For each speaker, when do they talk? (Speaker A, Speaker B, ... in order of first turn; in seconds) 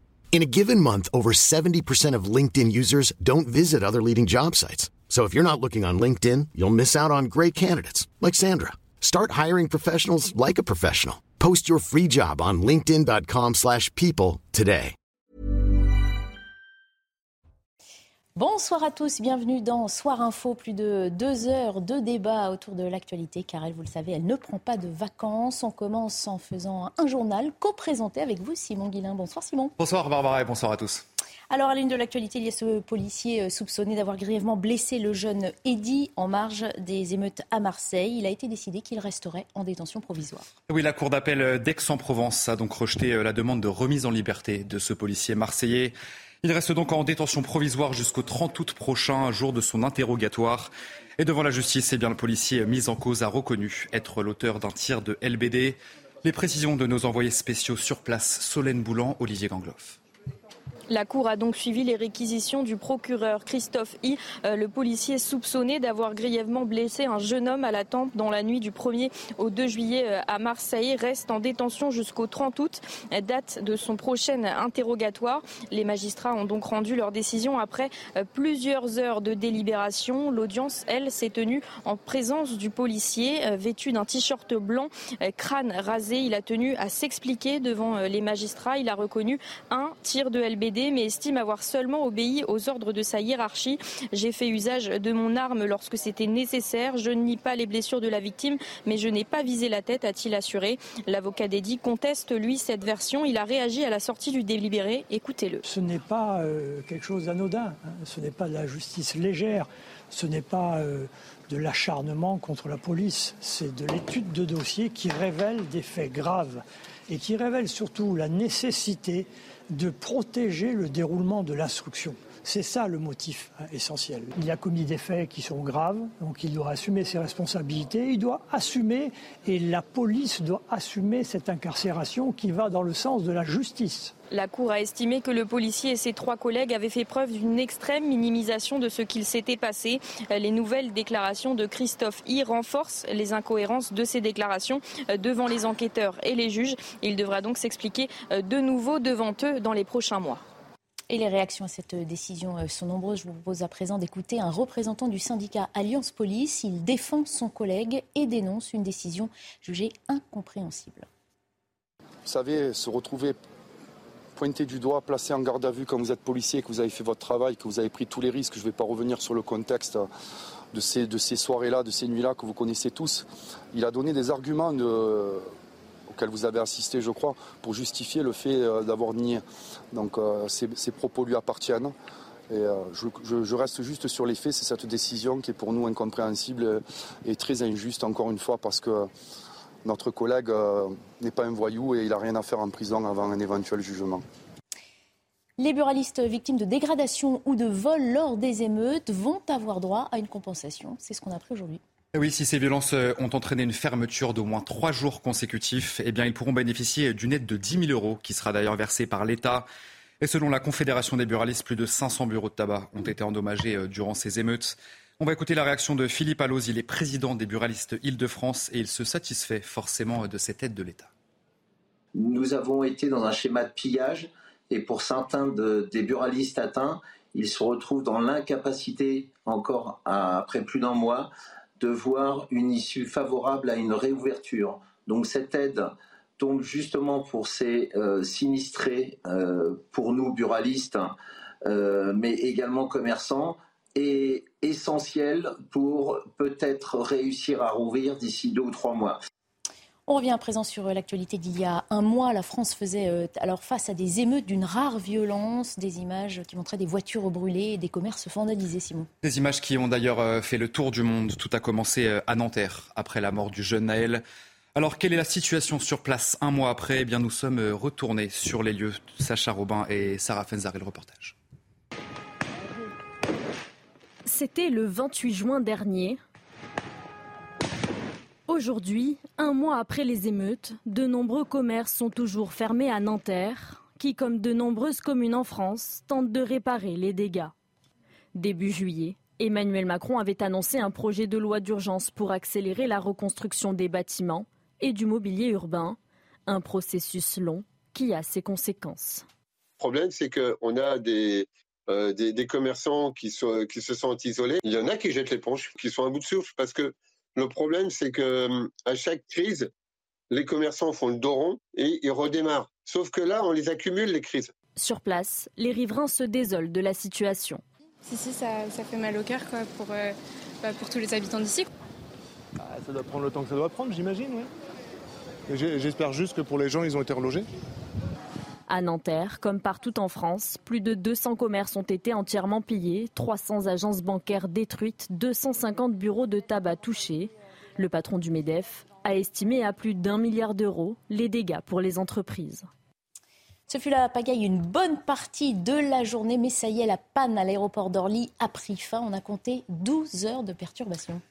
Speaker A: 0.3-14.9
Speaker B: 18.4-29.7, 31.5-40.5, 151.1-161.1, 195.6-201.8, 250.1-259.1, 343.7-351.2
Speaker C: 29.8-31.0, 40.7-60.0, 202.1-209.7, 210.2-221.1, 259.2-264.2, 264.7-271.3
Speaker D: 60.9-105.6, 134.3-150.4
Speaker E: 105.6-134.1
Speaker F: 162.2-163.3, 164.3-170.1, 170.7-175.5, 176.1-179.4, 179.9-181.9, 182.5-189.1, 189.8-194.2
Speaker G: 222.2-241.1, 241.6-249.2
Speaker H: 274.2-276.2, 278.5-287.5, 288.3-299.2, 314.8-317.6, 328.7-342.7
Speaker I: 299.8-309.7, 310.3-314.5
Speaker J: 318.1-321.7
Speaker K: 322.8-324.4, 325.5-327.4